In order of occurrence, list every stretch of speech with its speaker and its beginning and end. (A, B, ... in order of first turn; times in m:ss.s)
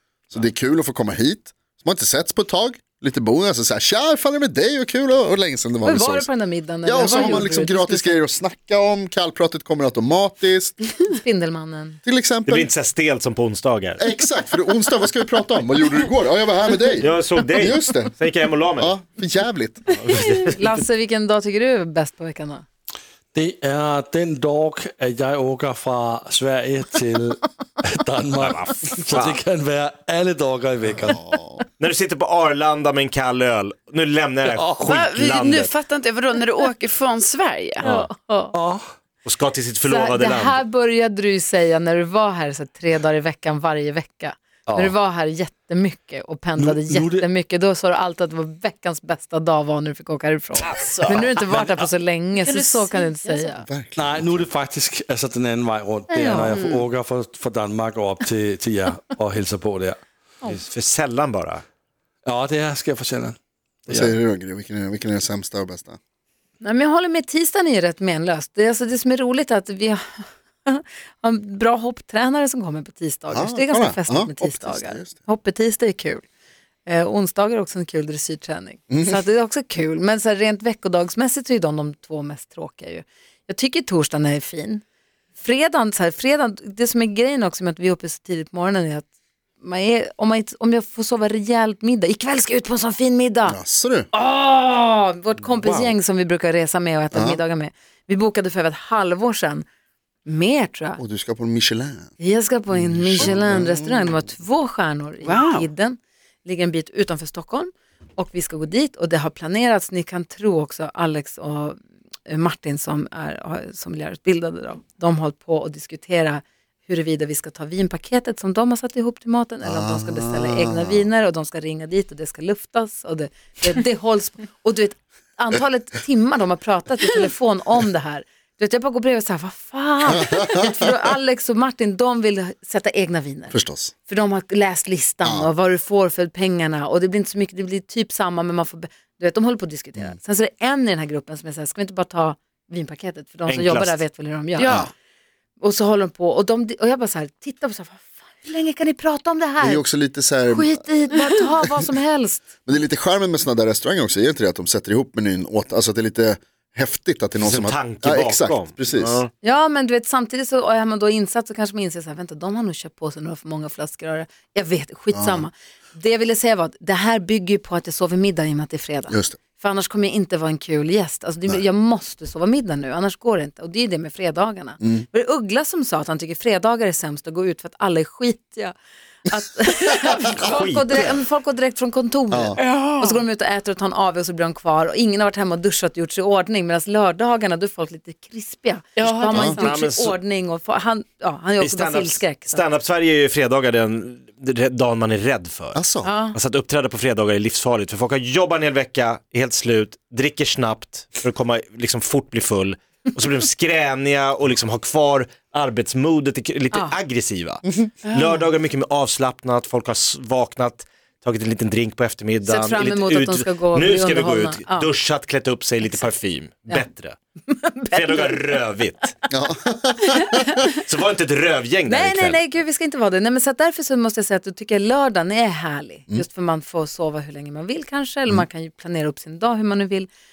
0:00.3-0:06.3 A
0:05.8-0:08.2 B
0:06.8-0:10.8 A
0:11.0-0:12.0 B
0:12.0-0:12.7 A
0:12.4-0:14.0 C
0:14.0-0:18.1 A
0:17.0-0:18.9 C
0:18.8-0:19.8 A
0:19.9-0:20.8 C
0:20.4-0:22.6 B
0:23.3-0:31.2 D
0:28.4-0:29.4 C
0:30.8-0:31.6 A
0:31.8-0:35.7 C
0:34.4-0:34.9 D
0:34.8-0:37.8 E
0:37.8-0:38.8 D
0:37.8-0:38.6 B
0:39.2-0:40.6 C
0:39.8-0:53.6 B
0:44.7-0:44.9 D
0:46.6-0:47.2 D
0:50.6-0:51.3 E
0:52.4-0:53.5 E
0:53.6-0:54.5 A
0:54.0-1:00.0 D
0:56.1-0:56.5 B
0:56.4-0:56.8 E
1:00.4-1:01.6 C
1:02.2-1:03.4 D
1:03.9-1:04.1 D
1:03.9-1:06.0 A
1:06.6-1:16.2 B
1:13.3-1:15.2 A
1:16.8-1:24.8 B
1:18.9-1:19.2 A
1:25.4-1:29.1 B
1:29.6-1:33.6 B
1:33.4-1:34.1 A
1:34.1-1:39.6 B
1:37.1-1:37.4 A
1:40.2-1:41.0 B
1:41.0-1:42.1 A
1:42.2-2:13.6 B
1:42.7-1:44.2 A
1:45.2-1:45.7 E
1:59.6-2:01.1 A
2:10.1-2:10.7 A
2:13.5-2:13.9 A
2:14.1-2:24.8 B
2:15.2-2:15.5 A
2:23.5-2:24.0 C
2:24.6-2:24.9 E
2:24.6-2:24.9 A
2:25.6-2:29.8 B
2:29.6-2:30.8 A
2:30.5-2:32.4 B
2:32.6-2:39.2 A
2:37.4-2:39.3 C
2:39.4-2:58.7 B
2:45.1-2:45.4 A
2:49.1-2:49.4 A
2:54.8-2:55.0 A
2:59.3-3:12.6 B
3:00.4-3:01.1 C
3:02.3-3:02.6 A
3:02.6-3:03.2 E
3:09.0-3:09.7 E
3:09.3-3:09.6 A
3:09.5-3:10.2 C
3:11.6-3:15.8 C
3:15.7-3:16.1 A
3:16.0-3:16.4 B
3:16.3-3:37.2 C
3:28.1-3:28.5 E
3:32.4-3:34.9 B
3:37.5-3:38.3 B
3:37.9-3:39.1 C
3:39.3-3:40.7 A
3:40.7-3:42.4 C
3:41.9-3:50.1 B